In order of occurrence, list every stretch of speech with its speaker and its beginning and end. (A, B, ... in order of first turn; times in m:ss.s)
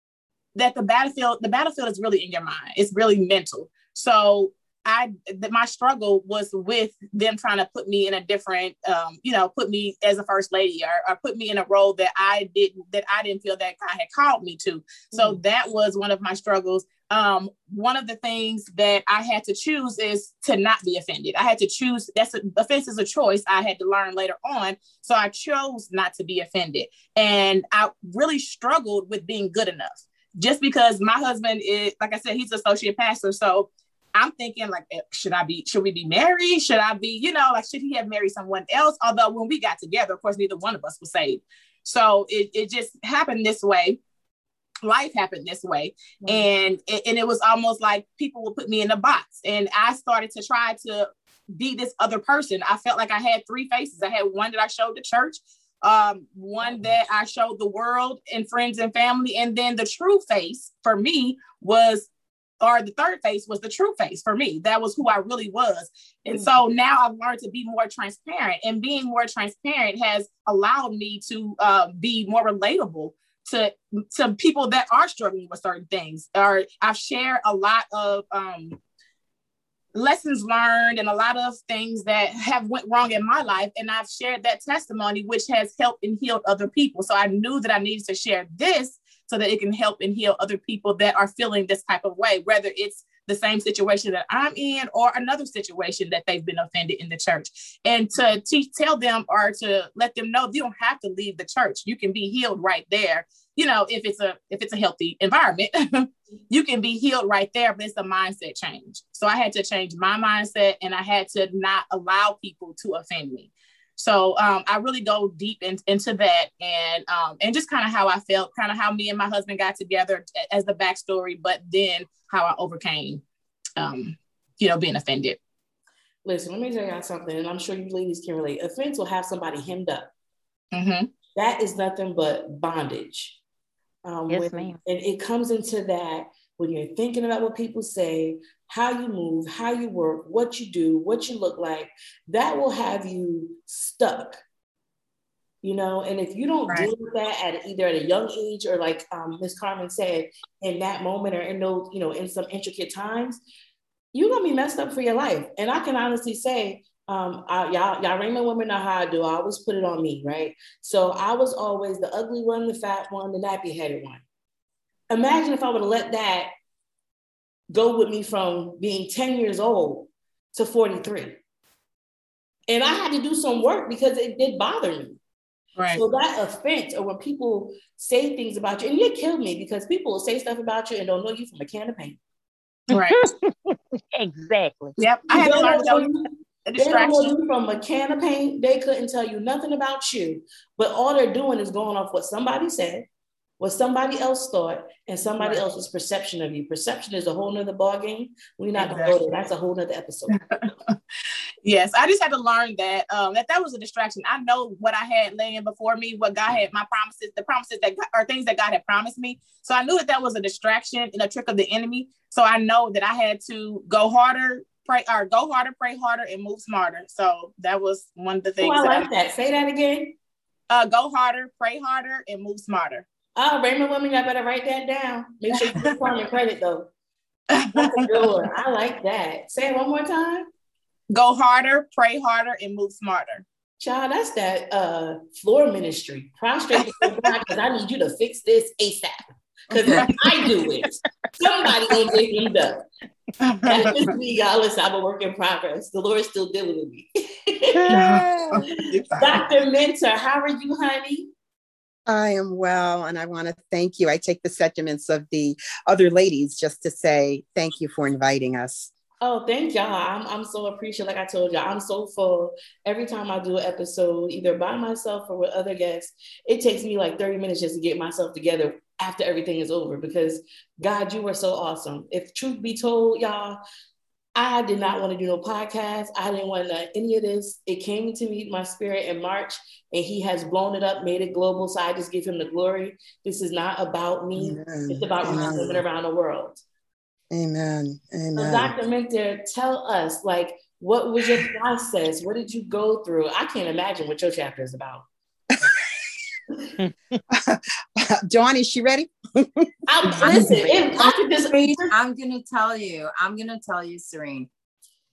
0:00.5-0:44.0 A
0:44.8-1:18.8 A
1:19.9-2:03.2 A
2:03.8-2:05.4 A
2:06.2-2:10.1 B
2:10.7-2:11.1 A
2:11.3-2:13.4 B
2:14.0-2:24.4 B
2:14.3-2:14.8 C
2:25.6-2:33.4 B
2:34.1-2:44.2 B
2:45.1-2:46.5 B
2:47.7-2:51.4 B
2:52.7-2:55.2 B
2:55.8-2:56.0 A
2:55.9-3:02.2 B
3:02.9-3:03.2 A
3:02.9-3:05.0 C
3:05.0-3:06.1 A
3:05.3-3:13.1 B
3:06.6-3:07.3 A
3:13.6-3:20.6 B
3:18.8-3:19.2 A
3:20.4-3:21.0 A
3:21.6-3:39.1 A
3:38.6-3:40.2 B
3:40.7-3:43.0 A
3:43.4-3:46.9 B
3:47.5-3:48.3 A
3:47.7-3:50.4 B
3:51.1-3:53.4 A
3:53.8-4:02.8 B
3:56.8-3:57.1 A
3:59.7-4:00.1 D
3:59.9-4:00.2 A
4:03.4-4:04.1 A
4:03.6-4:08.1 B
4:07.9-4:08.2 A
4:08.0-4:08.5 D
4:08.6-4:11.3 B
4:08.7-4:09.3 A
4:12.1-4:18.9 D
4:19.2-4:33.6 B
4:34.3-4:46.6 B
4:44.4-4:45.8 D
4:47.3-4:48.7 D
4:48.4-4:55.1 B
4:57.3-4:59.7 D
4:59.9-5:01.9 B
5:00.2-5:01.0 E
5:00.2-5:01.1 D
5:01.5-5:04.5 E